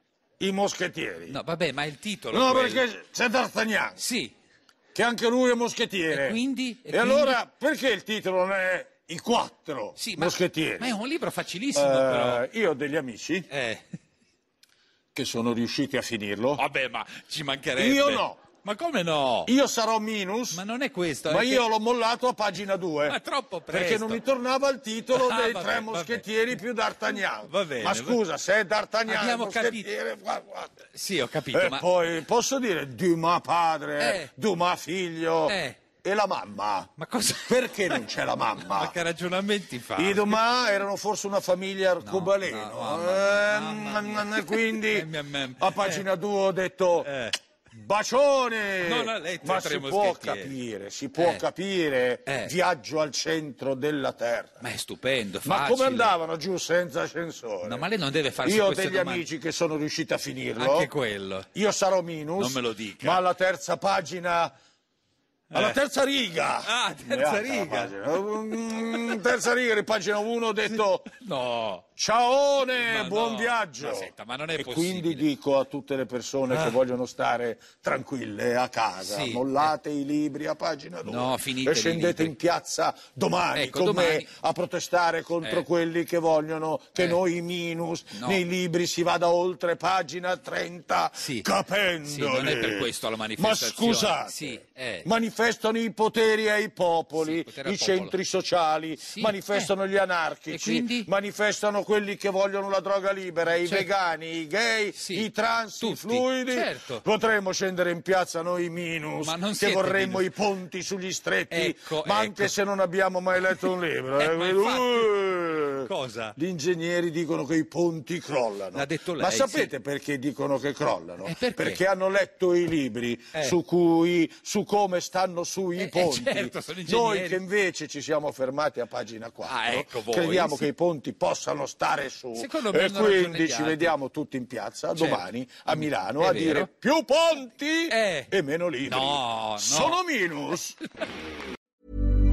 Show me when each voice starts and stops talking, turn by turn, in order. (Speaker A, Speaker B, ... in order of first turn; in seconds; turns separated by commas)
Speaker A: 0.4-1.4, Speaker B: 1.3-2.9, Speaker A: 2.3-4.0, Speaker B: 4.0-4.3, Speaker A: 4.9-11.0, Speaker B: 6.1-7.4, Speaker B: 10.0-12.4, Speaker A: 11.7-13.5, Speaker B: 13.5-13.8, Speaker A: 15.2-16.6, Speaker B: 16.6-19.5, Speaker A: 17.8-18.4, Speaker A: 19.5-20.6, Speaker B: 20.5-21.6, Speaker A: 21.3-23.2, Speaker B: 23.1-24.2, Speaker A: 23.7-30.8, Speaker B: 25.1-26.2, Speaker B: 27.1-28.2, Speaker B: 29.1-29.9, Speaker B: 30.9-31.9, Speaker A: 31.5-36.9, Speaker B: 34.0-34.3, Speaker B: 35.5-35.8, Speaker B: 37.0-40.4, Speaker A: 37.5-38.9, Speaker A: 40.0-47.1, Speaker B: 42.0-46.0, Speaker B: 47.0-47.4, Speaker A: 47.7-54.6, Speaker B: 48.8-50.5, Speaker B: 51.2-51.4, Speaker B: 52.3-52.5, Speaker B: 54.6-56.1, Speaker A: 55.4-57.8, Speaker B: 57.6-59.2, Speaker A: 58.4-60.9, Speaker B: 60.6-61.5, Speaker A: 61.5-64.5, Speaker B: 62.4-63.2, Speaker B: 65.5-65.8, Speaker A: 65.5-71.1, Speaker B: 66.6-67.9, Speaker B: 70.7-71.9, Speaker A: 72.0-140.8, Speaker B: 72.6-75.3, Speaker B: 76.5-76.8, Speaker B: 79.0-79.7, Speaker B: 81.0-82.3, Speaker B: 83.5-84.3, Speaker B: 85.4-85.7, Speaker B: 88.1-88.4, Speaker B: 91.2-91.5, Speaker B: 92.0-95.1, Speaker B: 97.2-98.1, Speaker B: 99.0-99.7, Speaker B: 100.5-101.1, Speaker B: 103.6-103.9, Speaker B: 105.0-107.0, Speaker B: 109.2-110.3, Speaker B: 111.5-112.5, Speaker B: 113.3-115.1, Speaker B: 115.8-116.3, Speaker B: 118.7-119.7, Speaker B: 121.2-121.8, Speaker B: 125.8-127.4, Speaker B: 129.4-130.7, Speaker B: 132.3-133.9, Speaker B: 134.9-136.7, Speaker B: 137.9-138.3, Speaker B: 138.9-140.0